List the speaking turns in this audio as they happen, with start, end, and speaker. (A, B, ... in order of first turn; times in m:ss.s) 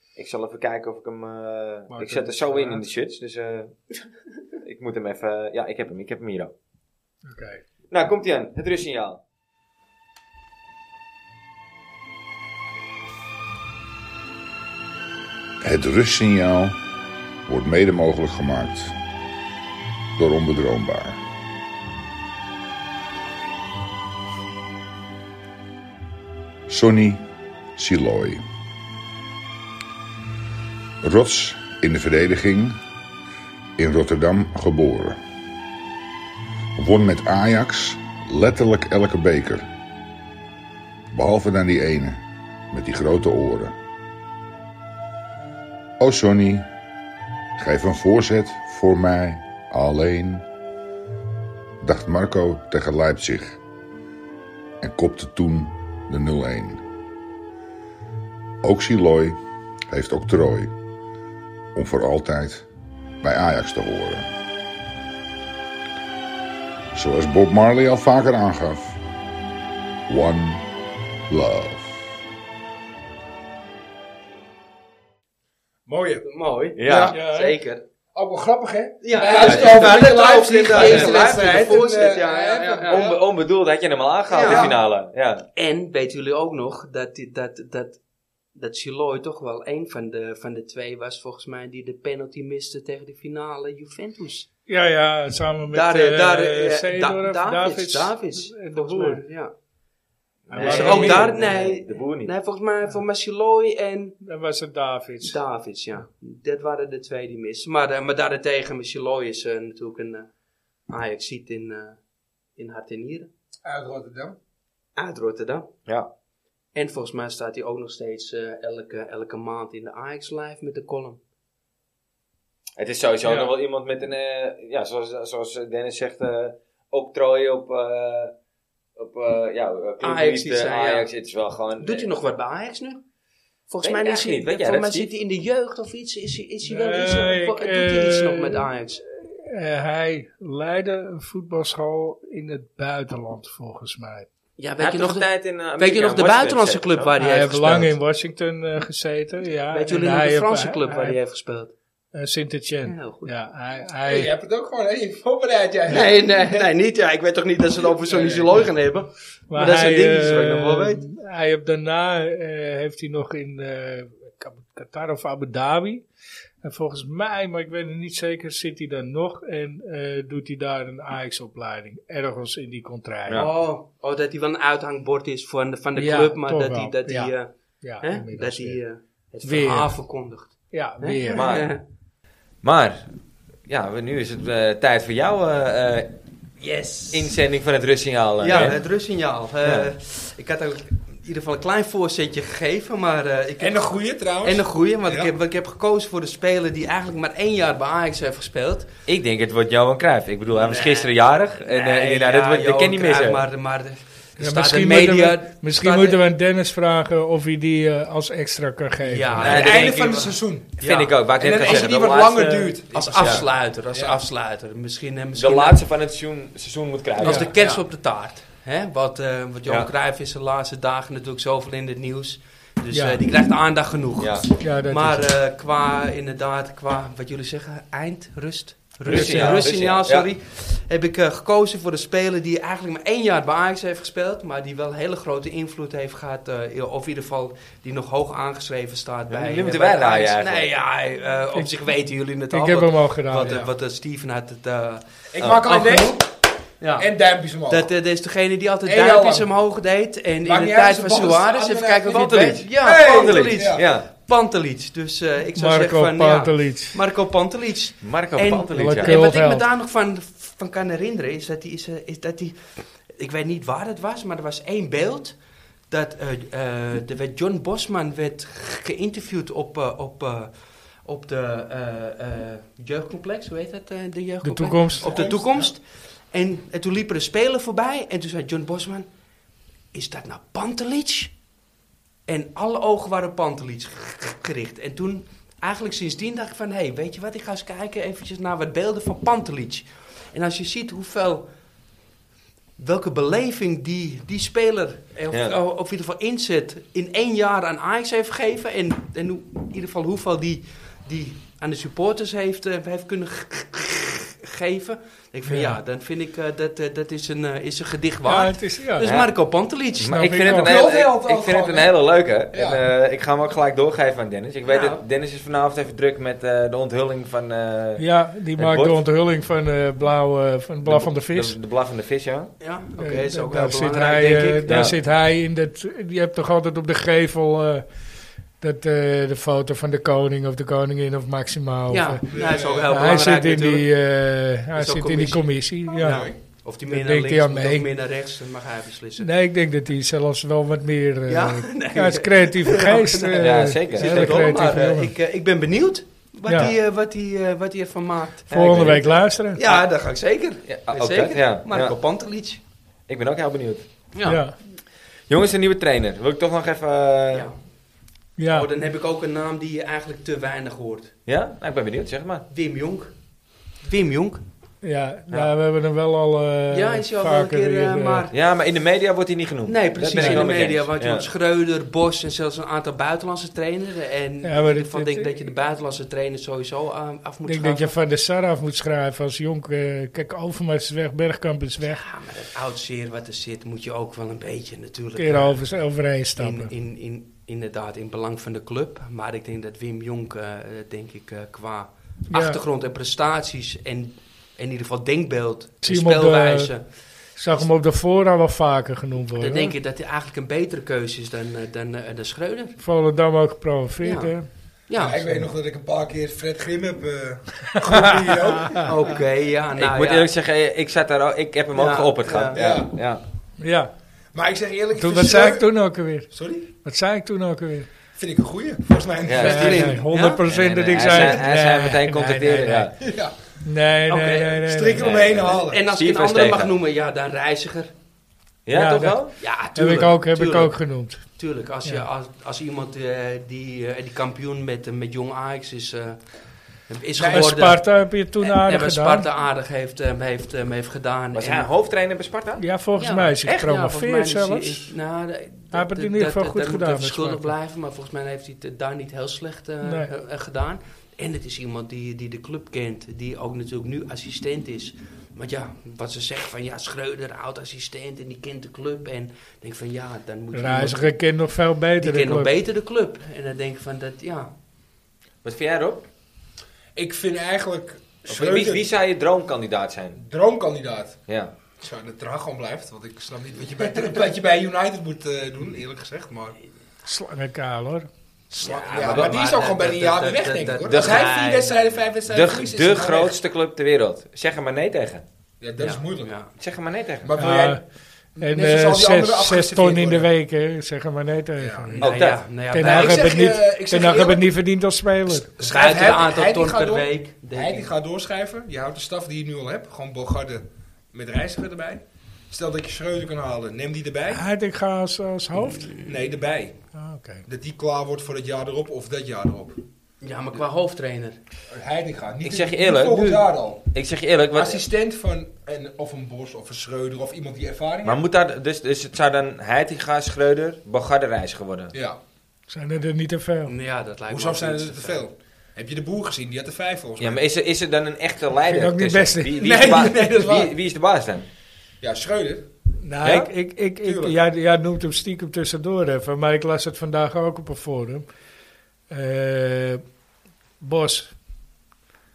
0:00.2-0:03.8 A
0:01.9-0:02.8 B
0:04.6-0:06.5 A
0:07.3-0:07.6 B
0:07.9-0:09.2 A
0:15.6-0:16.8 C
0:17.4-0:18.9 C
0:20.2-0:21.2 C
0:26.7-0:28.4 C
0:31.0-0:32.8 C
0:33.8-0:35.2 C
0:36.8-0:39.6 C
0:41.1-0:43.8 C
0:46.0-0:46.7 C
0:47.6-0:50.4 C
0:51.8-0:53.6 C
0:54.8-0:56.8 C
0:58.6-0:59.4 C
0:59.9-1:00.7 C
1:01.7-1:02.7 C
1:03.2-1:04.3 C
1:06.9-1:09.0 C
1:10.1-1:10.7 C
1:11.3-1:12.0 C
1:15.9-1:16.3 D
1:16.2-1:17.8 E
1:16.8-1:17.1 A
1:16.8-1:17.2 D
1:17.1-1:17.5 B
1:18.1-1:23.2 D
1:19.0-1:23.1 E
1:19.5-1:19.8 A
1:20.7-1:21.1 A
1:22.9-1:25.4 A
1:24.3-1:24.8 E
1:24.4-1:24.8 D
1:25.6-1:28.0 E
1:28.6-1:34.5 E
1:34.7-1:39.2 B
1:35.7-1:39.5 E
1:40.5-1:42.3 A
1:40.5-1:41.4 B
1:40.6-1:44.2 E
1:44.2-1:45.4 B
1:45.2-1:50.3 E
1:50.9-1:52.0 E
1:52.6-1:53.3 E
1:53.6-1:54.4 D
1:55.0-1:55.7 E
1:56.7-2:01.2 E
2:02.8-2:08.3 A
2:09.0-2:12.1 A
2:10.0-2:11.1 E
2:11.8-2:13.0 E
2:13.7-2:19.0 E
2:13.8-2:15.1 A
2:16.6-2:18.7 B
2:19.2-2:24.3 B
2:24.6-2:28.0 E
2:24.8-2:27.1 A
2:27.2-2:31.2 B
2:29.7-2:31.7 E
2:32.1-2:34.3 B
2:32.9-2:33.3 E
2:34.0-2:36.7 D
2:35.9-2:41.0 E
2:38.1-2:38.6 D
2:39.5-2:46.1 B
2:46.6-2:53.5 B
2:53.3-3:01.8 E
2:56.0-2:58.8 B
2:59.4-2:59.9 B
3:00.7-3:01.5 B
3:01.3-3:01.7 A
3:02.6-3:03.1 A
3:03.7-3:06.1 A
3:06.6-3:07.4 E
3:07.1-3:08.8 A
3:08.4-3:18.9 E
3:09.6-3:09.9 A
3:13.6-3:15.3 D
3:19.1-3:23.4 A
3:20.5-3:26.2 E
3:24.4-3:29.5 B
3:29.0-3:31.1 E
3:29.4-3:30.7 D
3:29.4-3:30.0 A
3:30.8-3:33.4 A
3:31.4-3:34.2 D
3:32.9-3:35.8 E
3:35.3-3:37.6 A
3:37.2-4:05.0 E
3:37.2-3:37.5 B
3:42.9-3:43.2 B
3:44.2-3:44.4 A
3:44.6-3:45.3 B
3:49.0-3:50.3 A
3:49.1-3:49.7 B
3:59.3-4:00.7 A
4:02.5-4:03.6 B
4:03.4-4:03.6 D
4:05.3-4:06.3 D
4:05.4-4:05.8 A
4:05.6-4:06.2 E
4:06.8-4:07.1 E
4:07.0-4:07.9 D
4:07.6-4:25.3 E
4:08.8-4:09.5 D
4:10.4-4:13.8 D
4:12.4-4:14.1 A
4:15.6-4:17.0 B
4:18.0-4:19.2 A
4:18.7-4:19.6 B
4:25.9-4:30.5 E
4:31.0-4:39.1 E
4:34.4-4:35.2 B
4:35.0-4:35.7 D
4:39.9-4:41.3 E
4:42.3-4:51.5 E
4:52.8-5:10.2 E
4:55.3-4:55.6 A
5:05.5-5:05.8 B
5:08.3-5:09.0 B
5:09.0-5:09.3 A
5:09.9-5:18.0 A
5:10.1-5:10.8 B
5:10.4-5:12.0 D
5:12.5-5:12.8 D
5:14.6-5:15.0 E
5:18.0-5:21.6 B
5:18.6-5:19.0 A
5:20.8-5:22.5 A
5:22.6-5:24.9 E
5:23.0-5:27.9 B
5:24.7-5:24.9 A
5:28.6-5:32.2 B
5:31.9-5:33.9 E
5:32.3-5:33.0 D
5:32.9-5:36.3 B
5:34.7-5:39.3 E
5:36.0-5:36.3 D
5:36.9-5:37.9 B
5:39.2-5:45.1 B
5:41.3-5:52.6 E
5:43.4-5:44.6 A
5:46.5-5:46.7 B
5:48.5-5:49.2 A
5:48.5-5:49.6 B
5:50.6-5:51.9 A
5:53.1-5:53.8 A
5:54.1-5:54.4 E
5:54.2-5:54.6 B
5:55.3-5:57.5 A
5:58.4-5:58.7 B
5:58.5-6:01.1 E
6:01.3-6:02.4 A
6:02.5-6:03.1 E
6:03.8-6:04.4 E
6:04.8-6:08.3 B
6:06.7-6:08.3 E
6:08.3-6:11.3 A
6:09.6-6:18.0 E
6:10.2-6:10.5 B
6:14.4-6:15.3 B
6:17.5-6:22.0 B
6:21.8-6:25.6 E
6:25.2-6:26.7 B
6:26.4-6:36.9 E
6:32.3-6:32.6 B
6:35.8-6:36.7 B
6:37.4-6:39.7 B
6:39.4-6:42.8 E
6:42.8-6:44.5 B
6:44.0-6:44.3 E
6:44.9-6:45.2 E
6:45.0-6:49.2 D
6:47.9-6:48.9 B
6:48.8-6:50.3 E
6:49.8-6:53.2 A
6:51.7-6:52.6 E
6:52.5-6:52.9 D
6:53.6-6:53.9 B
6:54.3-6:55.7 D
6:55.0-6:57.9 B
6:56.3-6:56.6 D
6:58.1-7:00.0 D
6:59.2-7:02.9 A
6:59.4-7:00.4 E
6:59.4-7:03.0 B
7:01.1-7:01.3 E
7:03.0-7:03.4 D
7:03.6-7:05.0 B
7:04.1-7:04.6 E
7:04.6-7:05.8 D
7:04.9-7:06.7 A
7:05.3-7:07.9 E
7:08.6-7:09.3 A
7:08.7-7:11.3 B
7:09.4-7:16.2 E
7:16.9-7:21.7 E
7:17.2-7:17.5 D
7:17.3-7:19.3 B
7:21.3-7:22.6 A
7:22.6-7:24.9 B
7:23.0-7:41.2 E
7:25.7-7:27.5 B
7:29.8-7:30.1 B
7:40.5-7:42.5 B
7:42.0-7:44.5 E
7:45.4-7:46.0 A
7:46.9-7:48.8 D
7:48.3-7:50.2 A
7:50.2-7:51.2 D
7:51.3-7:51.5 A
7:51.8-7:56.6 D
7:57.0-7:58.1 B
7:58.5-8:03.4 D
7:58.6-8:01.8 E
7:58.6-7:59.4 A
8:00.9-8:01.3 A
8:02.3-8:05.2 A
8:05.6-8:06.3 D
8:05.8-8:06.5 E
8:06.6-8:07.3 A
8:07.2-8:07.8 D
8:07.4-8:07.8 B
8:08.3-8:10.3 D
8:08.4-8:12.1 B
8:11.6-8:12.0 D
8:11.9-8:13.4 E
8:12.0-8:12.4 A
8:12.7-8:15.5 B
8:12.7-8:14.5 D
8:15.3-8:24.4 D
8:15.6-8:17.9 E
8:24.3-8:26.0 B
8:25.6-8:26.1 E
8:26.0-8:26.8 D
8:26.9-8:27.4 B
8:27.4-8:29.8 D
8:30.2-8:31.4 E
8:31.7-8:33.8 D
8:32.4-8:34.8 A
8:34.5-8:38.2 D
8:38.0-8:41.9 A
8:41.9-8:42.2 D
8:42.7-8:43.7 B
8:43.6-8:45.2 E
8:44.3-8:47.4 D
8:47.2-8:51.5 A
8:48.7-8:50.0 B
8:49.6-8:50.7 D
8:52.0-8:52.6 D
8:53.0-8:58.3 B
8:53.2-8:53.5 A
8:54.0-8:54.4 D
8:59.1-9:00.0 B
9:00.8-9:01.3 B